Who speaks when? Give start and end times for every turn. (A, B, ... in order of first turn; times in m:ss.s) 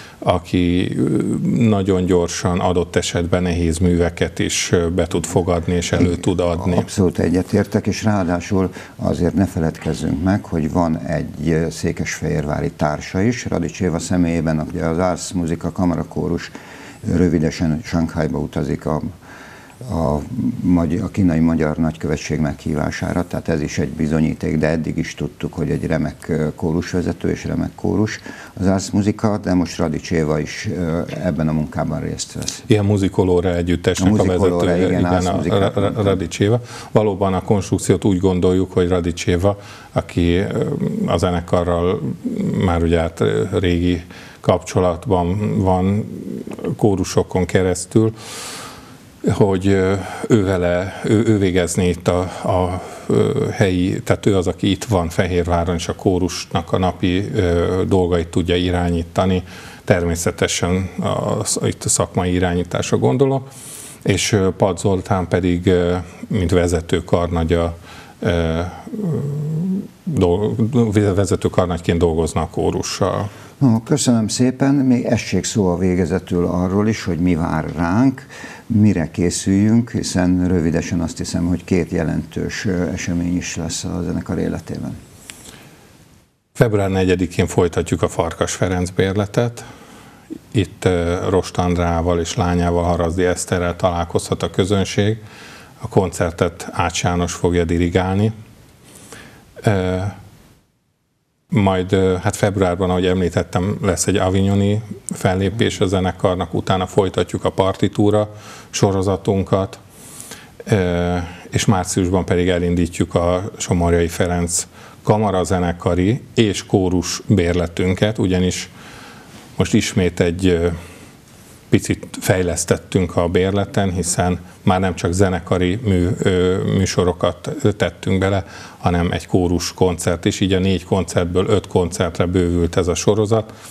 0:00.2-0:06.9 A
0:06.6-0:16.5 B
0:17.0-0:19.1 B
0:19.8-0:32.6 B
0:32.7-0:48.1 A
0:34.0-0:36.2 B
0:49.2-1:03.5 A
1:04.0-1:13.3 A
1:13.6-1:25.0 B
1:26.6-1:29.7 A
1:30.5-1:35.2 A
1:35.8-1:38.3 A
1:39.6-1:40.2 A
1:41.5-1:49.8 A
1:50.7-1:58.7 A
1:59.6-2:00.8 A
2:01.7-2:13.5 A